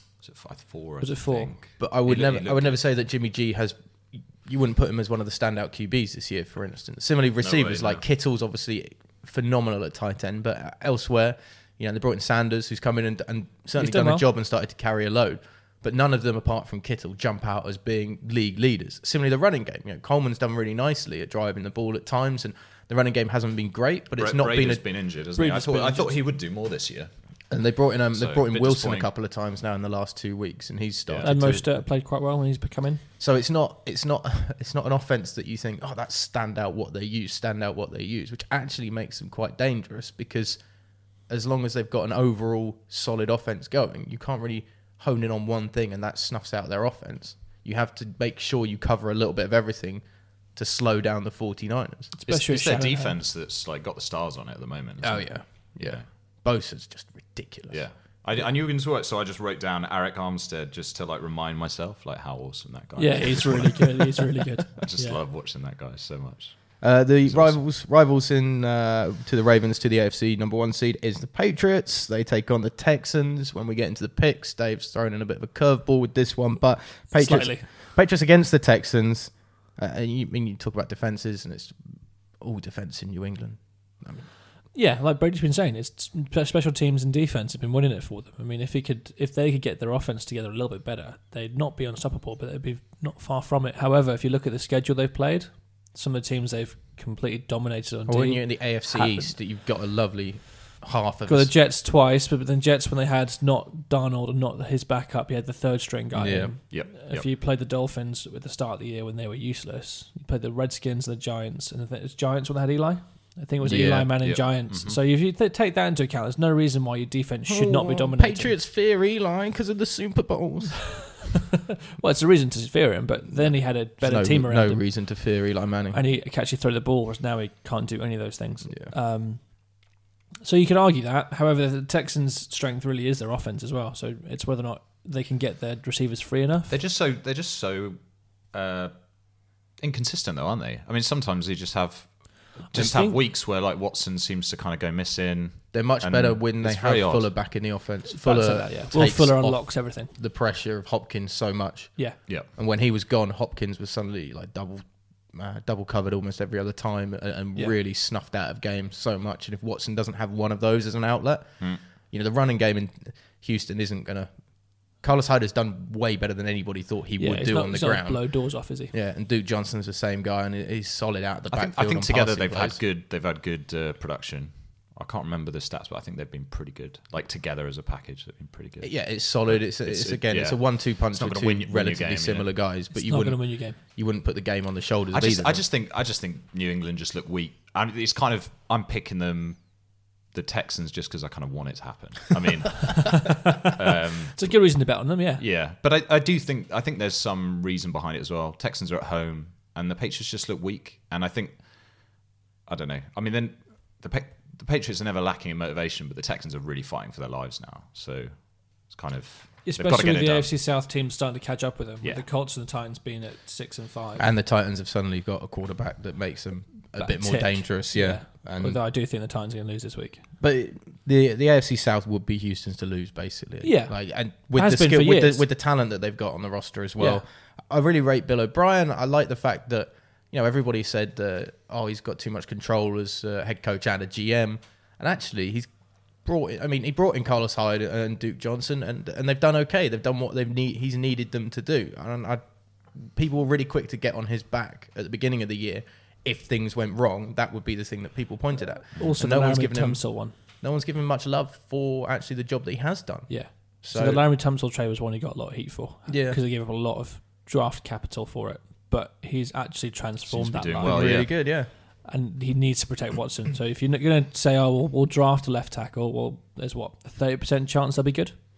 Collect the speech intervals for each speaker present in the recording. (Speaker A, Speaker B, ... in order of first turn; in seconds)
Speaker A: 0.2-2.8, 7.4-8.0, 24.2-27.1, 28.1-29.1, 31.1-31.4, 52.3-56.0, 57.7-67.6, 106.7-107.3, 114.2-115.0, 136.7-138.0, 138.5-138.9, 139.8-147.3, 171.5-182.5, 185.1-189.6, 190.3-194.5, 195.4-210.5, 260.3-261.3
Speaker B: 1.0-1.5, 13.8-14.2, 25.4-26.2, 31.2-33.0, 52.1-53.2, 63.0-65.2, 77.1-77.7, 84.7-99.3, 101.3-118.5, 121.9-125.0, 125.9-129.6, 130.4-136.8, 142.7-143.2, 148.1-150.1, 167.2-168.9, 182.9-183.8, 192.9-193.8, 194.3-195.4, 209.7-214.3, 217.0-220.2, 223.6-225.4, 227.0-227.2, 248.9-250.3, 253.3-261.5, 262.1-268.4
Speaker C: 1.8-24.9, 27.5-31.7, 33.2-40.6, 41.3-50.0, 50.5-52.1, 55.0-57.8, 66.8-81.8, 82.4-84.3, 98.1-101.5, 106.1-106.5, 113.6-114.1, 117.5-121.2, 123.3-126.0, 145.7-164.3, 164.9-172.8, 178.8-185.6, 214.2-218.8, 220.4-235.7, 236.2-242.4, 242.9-254.2, 256.1-256.4, 260.8-261.7